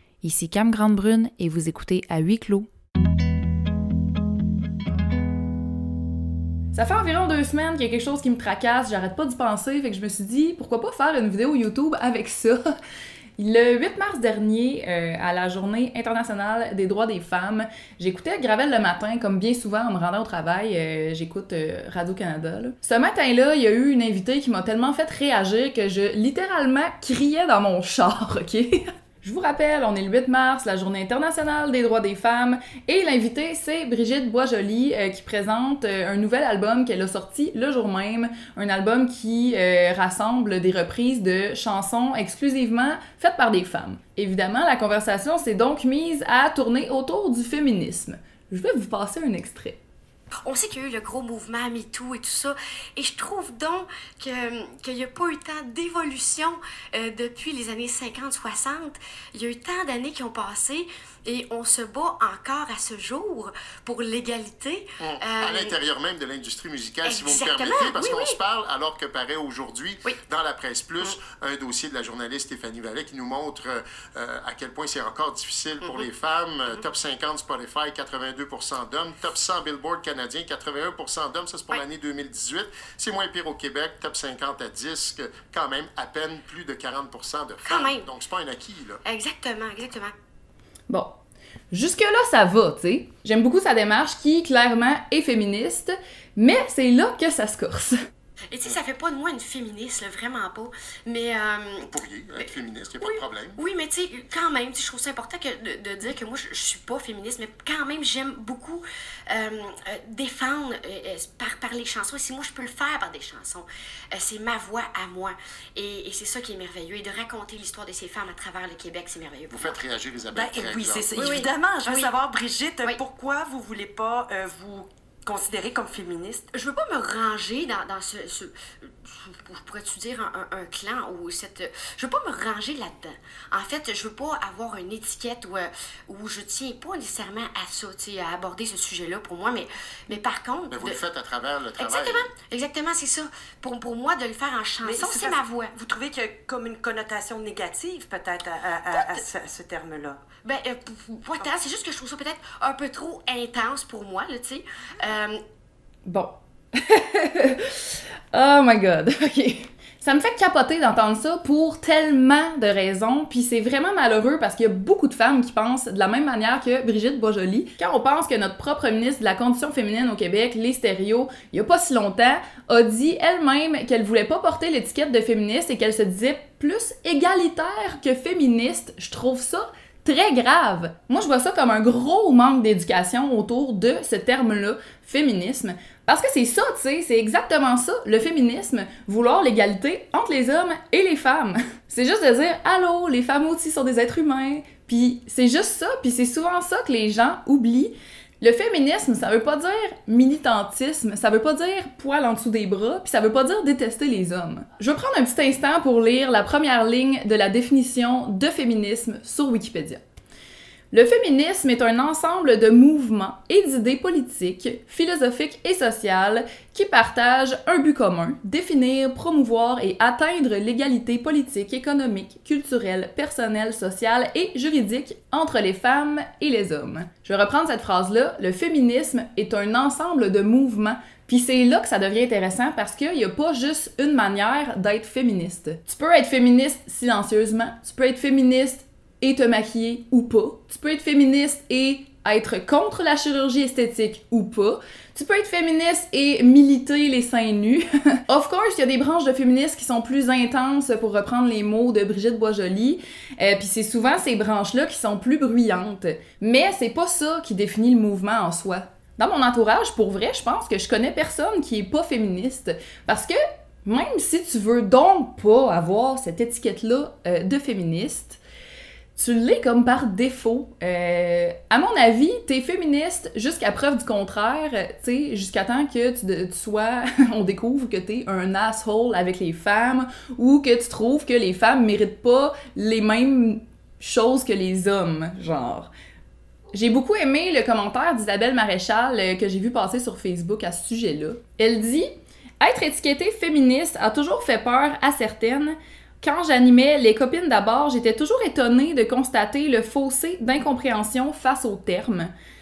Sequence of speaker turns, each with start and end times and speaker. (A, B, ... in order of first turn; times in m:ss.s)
0:00.2-0:02.7 A
0:06.7-0:12.6 A
0:13.4-0:49.8 A
0:50.4-1:05.8 B
1:05.0-1:29.0 C
1:07.0-1:08.4 B
1:27.6-1:28.1 B
1:29.0-1:30.1 B
1:31.7-1:38.0 A
1:38.5-1:59.8 B
1:41.8-1:43.6 C
1:59.5-2:01.5 C
2:00.3-2:06.5 D
2:01.2-2:02.1 B
2:06.5-2:21.0 B
2:20.7-2:22.3 C
2:21.8-2:25.7 B
2:24.8-2:30.2 D
2:28.9-2:29.2 B
2:30.4-2:35.4 B
2:36.1-3:30.0 A
3:30.9-4:28.4 A
4:29.2-4:45.9 A
4:46.7-4:52.1 A
4:52.6-5:02.3 A